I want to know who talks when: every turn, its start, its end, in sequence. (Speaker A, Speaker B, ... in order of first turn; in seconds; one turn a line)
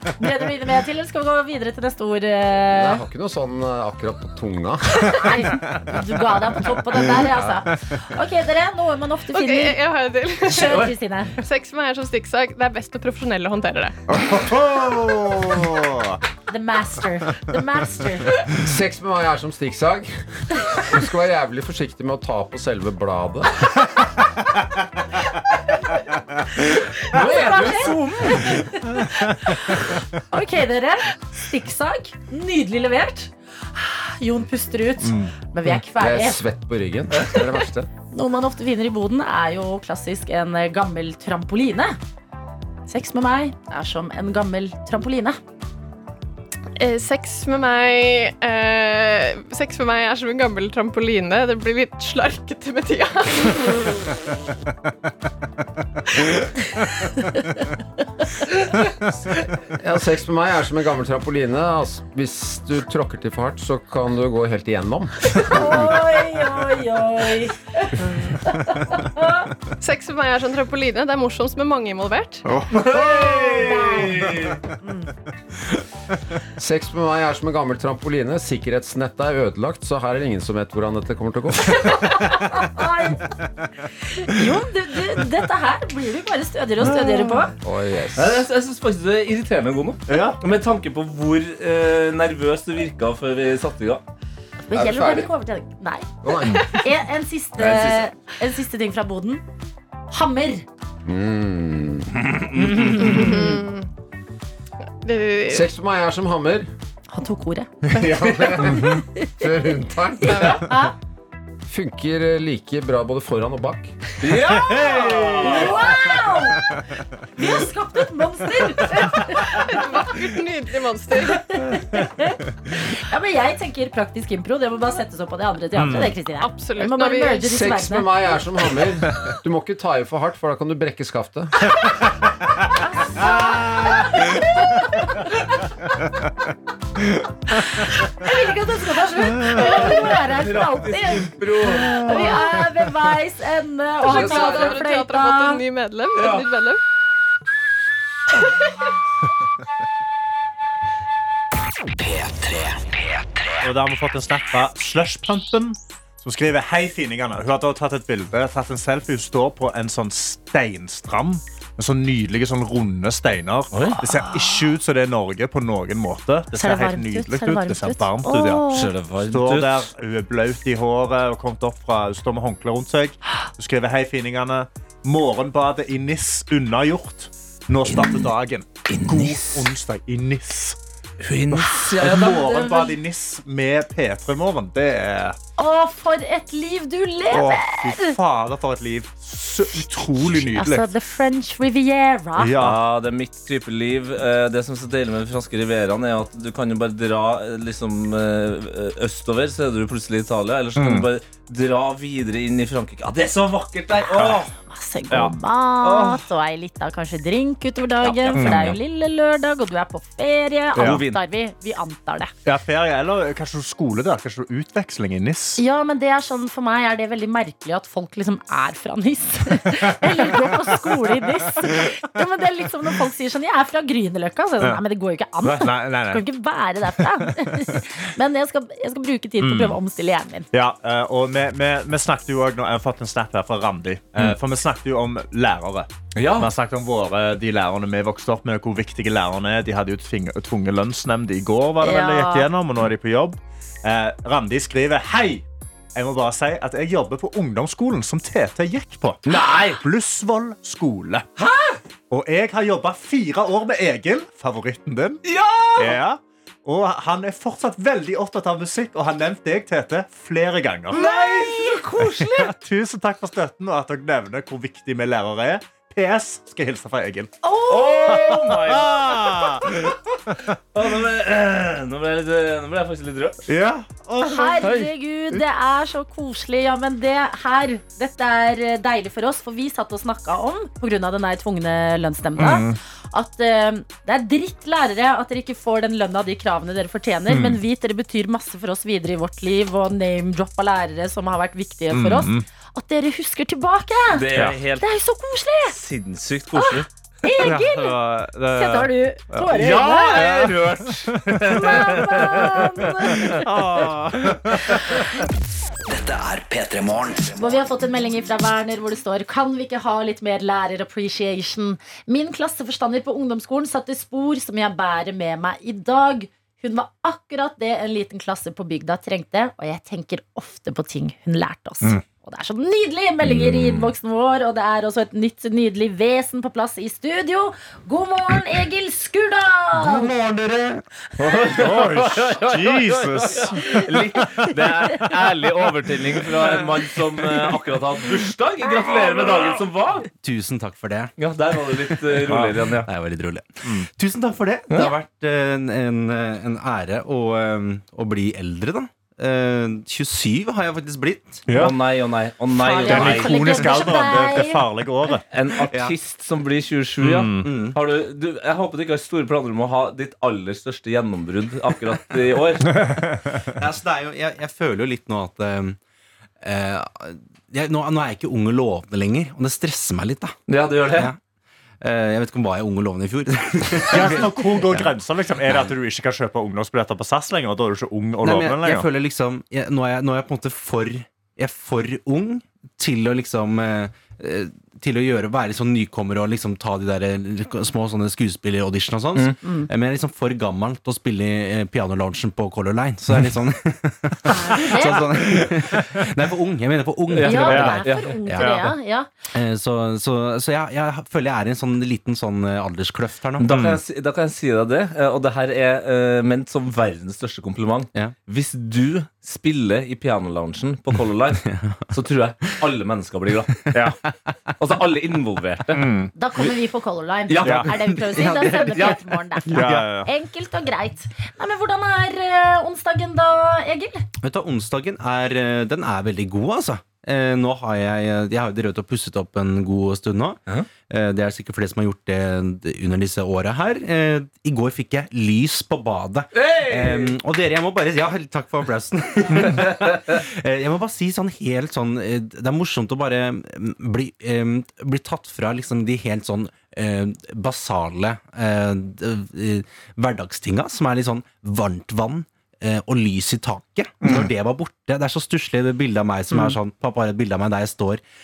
Speaker A: 0.2-3.0
Speaker B: 2.8-4.8
Speaker A: 5.0-9.8
Speaker C: 9.3-14.0
Speaker A: 10.4-11.4
Speaker D: 14.1-16.2
Speaker A: 16.5-18.4
Speaker B: 18.6-20.1
Speaker B: 20.8-23.5
Speaker A: 27.0-36.4
Speaker E: 27.1-28.6
Speaker D: 35.0-35.3
Speaker B: 36.0-37.9
Speaker A: 38.1-42.0
Speaker A: 42.9-45.4
Speaker C: 46.8-53.9
Speaker B: 59.8-66.1
Speaker A: 65.4-69.5
Speaker C: 69.8-72.4
Speaker D: 72.5-73.9
Speaker A: 72.7-74.3
Speaker E: 72.7-74.6
Speaker B: 76.6-82.3
Speaker A: 81.7-83.3
Speaker A: 84.1-87.5
Speaker D: 86.8-87.5
Speaker B: 87.6-88.5
Speaker E: 88.2-94.0
Speaker D: 90.1-90.4
Speaker A: 94.7-99.4
Speaker B: 94.7-95.3
Speaker B: 96.2-96.7
Speaker E: 97.6-98.1
Speaker A: 100.1-100.7
Speaker B: 101.1-102.1
Speaker E: 102.2-103.2
Speaker A: 102.6-103.6
Speaker C: 103.1-103.9
Speaker C: 105.0-105.7
Speaker B: 105.5-106.7
Speaker A: 107.1-109.5
Speaker B: 107.9-110.7
Speaker A: 110.2-110.9
Speaker B: 111.7-113.9
Speaker E: 114.2-115.8
Speaker D: 114.4-116.3
Speaker A: 115.3-116.7
Speaker A: 117.3-119.8
Speaker C: 119.5-121.5
Speaker A: 121.1-128.4
Speaker D: 125.8-126.1
Speaker C: 126.3-127.5
Speaker B: 127.5-131.6
Speaker A: 132.7-135.5
Speaker D: 133.4-133.9
Speaker A: 137.5-145.6
Speaker E: 139.5-142.2
Speaker C: 144.0-146.8
Speaker B: 144.1-144.8
Speaker E: 146.2-146.4
Speaker F: 152.0-153.7
Speaker D: 153.6-180.8
Speaker E: 163.7-164.0
Speaker A: 166.5-168.9
Speaker E: 168.7-169.9
Speaker E: 177.9-178.2
Speaker E: 178.9-179.7
Speaker E: 181.2-182.9
Speaker D: 181.5-185.4
Speaker A: 185.6-188.2
Speaker D: 187.3-190.9
Speaker A: 190.5-192.6
Speaker D: 192.4-192.8
Speaker E: 192.6-204.5
Speaker D: 200.8-201.1
Speaker D: 204.2-204.4
Speaker A: 204.5-212.3
Speaker D: 205.1-206.2
Speaker E: 208.0-208.8
Speaker D: 208.3-208.8
Speaker E: 210.8-211.2
Speaker D: 210.8-211.0
Speaker D: 212.5-215.6
Speaker A: 215.6-230.5
Speaker D: 219.8-220.8
Speaker D: 225.4-226.2
Speaker D: 226.9-227.6
Speaker D: 229.4-229.8
Speaker D: 230.5-245.4
Speaker E: 236.2-236.5
Speaker A: 241.8-242.5
Speaker D: 245.9-251.3
Speaker E: 249.3-249.8
Speaker E: 251.4-251.7
Speaker D: 252.1-255.2
Speaker E: 255.2-256.0
Speaker D: 255.8-261.1
Speaker E: 260.9-262.5
Speaker A: 260.9-261.8
Speaker D: 262.1-267.4
Speaker A: 267.4-268.4
Speaker E: 267.7-270.0
Speaker D: 268.1-269.8
Speaker E: 270.7-273.5
Speaker D: 273.5-274.8
Speaker A: 274.2-294.2
Speaker E: 274.6-274.9
Speaker D: 282.4-282.8
Speaker D: 287.3-287.6
Speaker D: 291.9-292.5
Speaker E: 294.1-294.9
Speaker D: 294.4-294.6
Speaker A: 294.8-295.8
Speaker E: 295.7-296.9
Speaker A: 296.6-298.0
Speaker D: 297.4-305.2
Speaker A: 298.5-300.3
Speaker E: 299.5-302.5
Speaker A: 301.5-303.5
Speaker F: 305.9-307.7
Speaker A: 307.4-330.2
Speaker G: 330.2-330.8
Speaker E: 331.2-340.1
Speaker D: 331.2-335.2
Speaker G: 340.2-341.1
Speaker E: 341.2-342.9
Speaker G: 341.7-351.5
Speaker D: 351.5-351.8
Speaker E: 351.5-353.6
Speaker A: 352.6-354.7
Speaker D: 352.9-355.2
Speaker E: 355.3-362.8
Speaker D: 357.0-357.5
Speaker G: 357.4-357.8
Speaker G: 363.6-365.8
Speaker G: 366.4-370.4
Speaker E: 370.5-371.1
Speaker G: 370.9-371.2
Speaker G: 371.8-374.9
Speaker D: 373.9-378.9
Speaker G: 378.2-398.7
Speaker A: 389.4-389.7
Speaker A: 394.3-395.1
Speaker E: 397.1-398.2
Speaker A: 397.2-399.1
Speaker D: 397.5-397.8
Speaker D: 398.4-398.7
Speaker G: 399.3-403.6
Speaker E: 403.4-413.7
Speaker D: 403.5-403.8
Speaker G: 411.4-411.9
Speaker D: 413.7-414.0
Speaker E: 414.6-415.9
Speaker D: 415.7-416.1
Speaker A: 416.1-424.1
Speaker E: 417.3-417.7
Speaker D: 417.4-417.7
Speaker G: 417.9-419.0
Speaker E: 418.2-418.6
Speaker D: 419.5-420.1
Speaker G: 419.5-419.9
Speaker G: 424.2-458.0
Speaker E: 436.3-437.2
Speaker A: 456.3-456.6